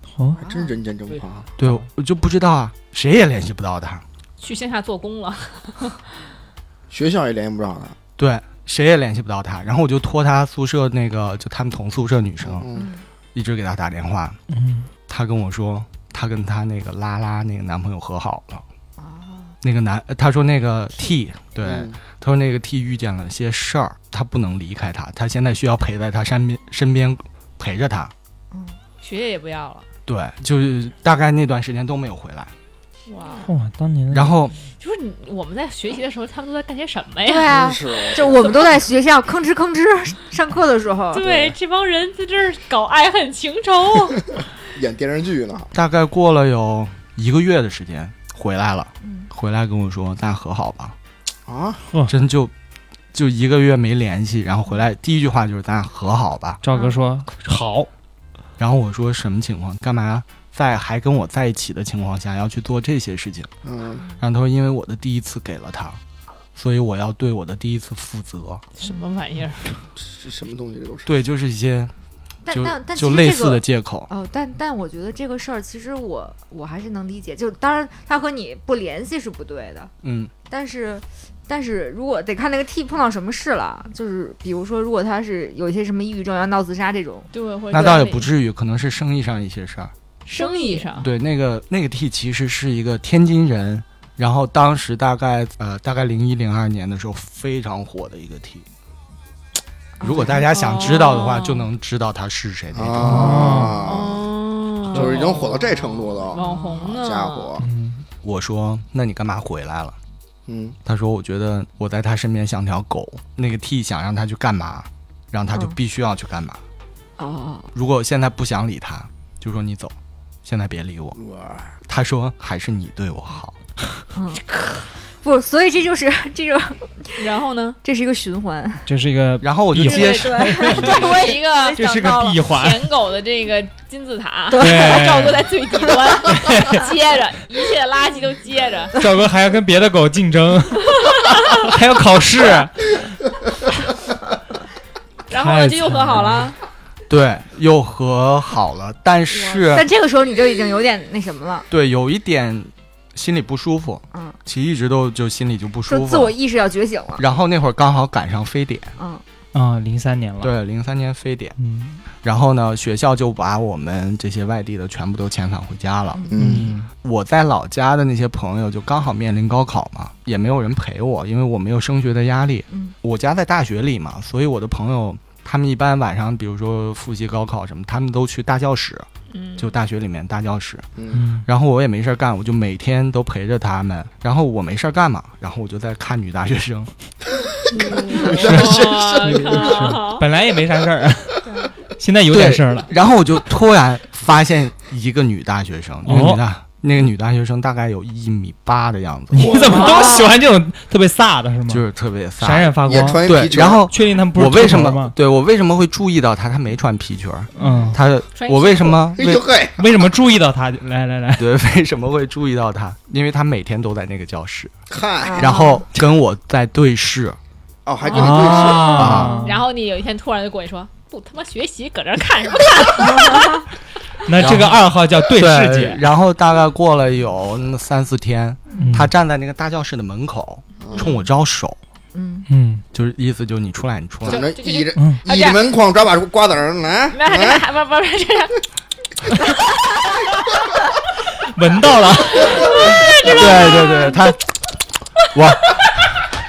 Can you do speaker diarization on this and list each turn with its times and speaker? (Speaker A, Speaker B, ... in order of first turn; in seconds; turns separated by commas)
Speaker A: 0.3-0.7, Speaker B: 0.3-1.5, Speaker C: 1.6-4.0, Speaker D: 4.4-6.2, Speaker B: 6.9-8.0, Speaker C: 8.2-12.7, Speaker B: 12.4-12.8, Speaker A: 12.7-13.0, Speaker C: 13.3-14.4, Speaker E: 14.5-14.9, Speaker C: 15.1-18.6, Speaker A: 19.0-19.5, Speaker C: 19.6-28.1, Speaker B: 21.6-21.9, Speaker A: 28.5-28.8, Speaker D: 29.0-29.9, Speaker C: 30.1-32.5, Speaker D: 33.1-33.5, Speaker E: 33.4-34.3, Speaker C: 34.1-34.6, Speaker D: 34.8-37.5, Speaker A: 37.2-41.2, Speaker B: 37.5-38.5, Speaker D: 41.1-44.3, Speaker B: 41.2-41.5, Speaker B: 44.7-45.7, Speaker C: 45.7-51.0, Speaker A: 49.0-49.3, Speaker B: 51.5-51.8, Speaker E: 51.9-52.1, Speaker C: 52.0-52.5, Speaker C: 53.1-56.6, Speaker E: 56.6-57.9, Speaker C: 58.6-63.5, Speaker B: 63.6-64.0, Speaker C: 64.2-66.0, Speaker C: 66.5-68.6, Speaker D: 68.8-69.8, Speaker B: 70.0-71.1, Speaker C: 71.0-71.9, Speaker A: 72.5-79.9, Speaker C: 72.5-74.1, Speaker C: 80.0-80.3, Speaker A: 80.5-88.1, Speaker D: 87.3-88.3, Speaker C: 87.7-89.9, Speaker D: 90.2-91.1, Speaker A: 90.3-90.8, Speaker C: 91.0-98.7, Speaker A: 100.0-100.4, Speaker C: 100.0-103.5, Speaker D: 100.5-101.7, Speaker B: 102.7-104.2, Speaker E: 103.0-103.9, Speaker D: 103.8-107.5, Speaker B: 104.9-107.7, Speaker A: 106.3-107.0, Speaker E: 107.6-108.0, Speaker C: 108.2-110.0, Speaker B: 110.5-110.8, Speaker C: 110.8-116.6, Speaker A: 117.2-117.7, Speaker C: 117.7-121.2, Speaker B: 121.2-121.7, Speaker C: 121.9-123.5, Speaker A: 124.1-124.4, Speaker A: 125.0-127.2, Speaker D: 127.2-127.8, Speaker A: 127.8-128.9, Speaker E: 128.8-131.2, Speaker C: 129.4-130.9, Speaker A: 129.8-132.4, Speaker D: 130.6-138.9, Speaker E: 131.7-132.9, Speaker A: 134.5-135.2, Speaker E: 134.5-135.5, Speaker E: 136.3-136.9, Speaker E: 138.9-141.0, Speaker D: 141.1-141.3, Speaker E: 141.6-143.0, Speaker D: 145.3-146.6, Speaker E: 145.3-146.5, Speaker C: 147.1-149.9, Speaker A: 149.4-151.7, Speaker C: 151.7-156.3, Speaker A: 154.1-154.4, Speaker A: 155.9-157.2, Speaker C: 157.2-158.9, Speaker A: 159.0-159.2, Speaker E: 159.5-160.6, Speaker C: 160.4-161.6, Speaker E: 161.6-162.0, Speaker C: 162.2-166.3, Speaker A: 166.1-166.5, Speaker B: 166.3-166.7, Speaker E: 166.4-166.9, Speaker C: 167.0-179.1, Speaker D: 179.3-179.7, Speaker C: 179.6-180.9, Speaker B: 181.0-181.2, Speaker E: 181.1-181.4, Speaker C: 181.4-186.9, Speaker D: 187.7-190.2, Speaker B: 187.9-189.9, Speaker C: 188.3-188.9, Speaker E: 188.5-192.9, Speaker C: 192.3-199.7, Speaker E: 196.0-196.4, Speaker E: 199.3-201.8, Speaker D: 199.5-200.2, Speaker A: 199.7-200.2, Speaker C: 201.7-209.5, Speaker E: 202.4-205.2, Speaker B: 202.8-203.8, Speaker E: 207.6-208.0, Speaker D: 208.3-209.1, Speaker B: 209.1-209.8, Speaker E: 209.8-211.5, Speaker C: 211.3-214.7, Speaker B: 214.9-215.5, Speaker A: 215.2-215.8, Speaker C: 215.4-217.4, Speaker B: 217.8-219.1, Speaker E: 218.1-219.6, Speaker D: 218.1-223.5, Speaker A: 218.6-219.5, Speaker C: 218.9-219.4, Speaker A: 223.2-223.5, Speaker E: 224.2-226.0, Speaker C: 224.3-231.8, Speaker E: 228.8-229.1, Speaker B: 230.8-231.1, Speaker A: 232.1-232.5, Speaker E: 232.5-232.8, Speaker C: 232.9-234.4, Speaker B: 234.2-237.6, Speaker D: 234.3-235.6, Speaker D: 237.1-238.6, Speaker E: 241.4-243.3, Speaker D: 242.4-244.1, Speaker C: 243.3-244.4, Speaker C: 245.3-245.8